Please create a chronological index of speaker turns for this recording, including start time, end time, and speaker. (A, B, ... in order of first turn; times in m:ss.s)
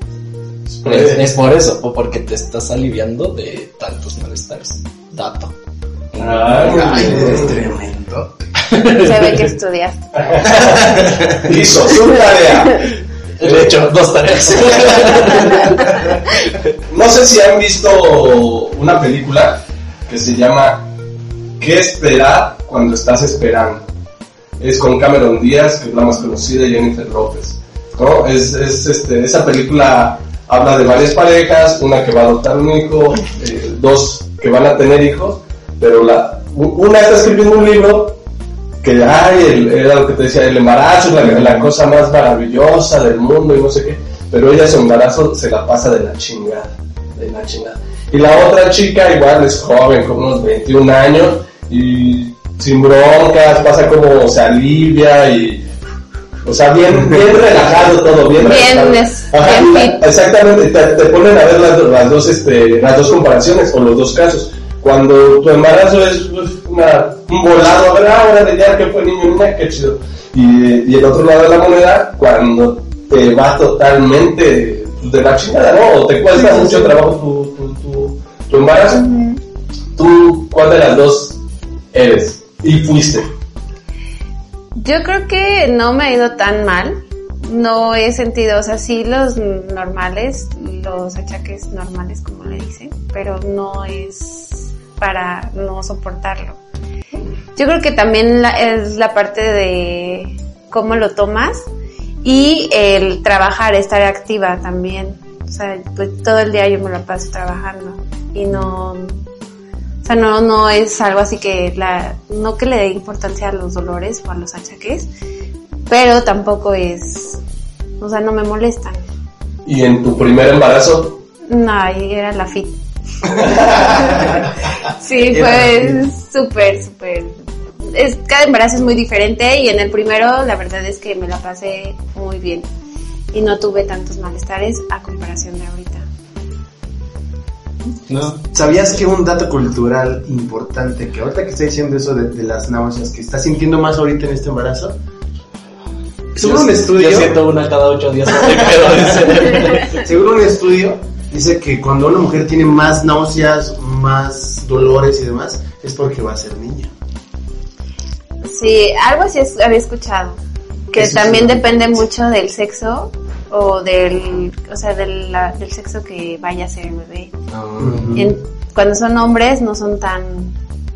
0:00.7-0:01.2 A
0:00.8-0:05.5 B
0:06.1-0:07.5 B
0:06.2-0:07.5 A
0:06.6-0:08.5 C
0:08.6-0:09.5 B
0:08.8-0:10.6 D
0:10.3-0:10.7 A
0:10.6-0:11.3 B
0:11.3-0:12.9 A
0:13.4-0:16.0 B
0:13.4-0:13.7 A
0:16.9-0:20.9 A
0:21.6-0:23.9 A
0:24.6-0:38.2 A
0:38.8-0:55.7 A
0:41.2-0:41.6 C
0:56.4-1:19.1 A
0:58.4-1:00.0 D
1:16.5-1:16.9 D
1:19.0-1:19.4 D
1:20.0-1:21.4 A
1:21.9-1:23.3 A
1:24.8-1:36.6 D
1:37.6-1:41.7 D
1:42.2-1:49.2 D
1:50.0-1:55.1 D
1:55.9-1:57.4 D
1:58.0-1:59.0 D
1:59.6-2:01.2 A
2:01.5-2:02.8 D
2:03.3-2:07.3 D
2:03.6-2:03.9 A
2:05.3-2:06.0 C
2:07.9-2:12.7 D
2:13.3-2:16.0 D
2:18.1-2:18.6 B
2:18.5-2:25.0 C
2:26.3-2:27.4 C
2:26.4-2:30.0 B
2:29.5-2:36.9 C
2:38.4-2:40.4 D
2:40.9-2:47.3 D
2:40.9-2:41.8 C
2:47.7-2:48.2 B
2:47.8-2:48.3 C
2:48.1-2:50.6 D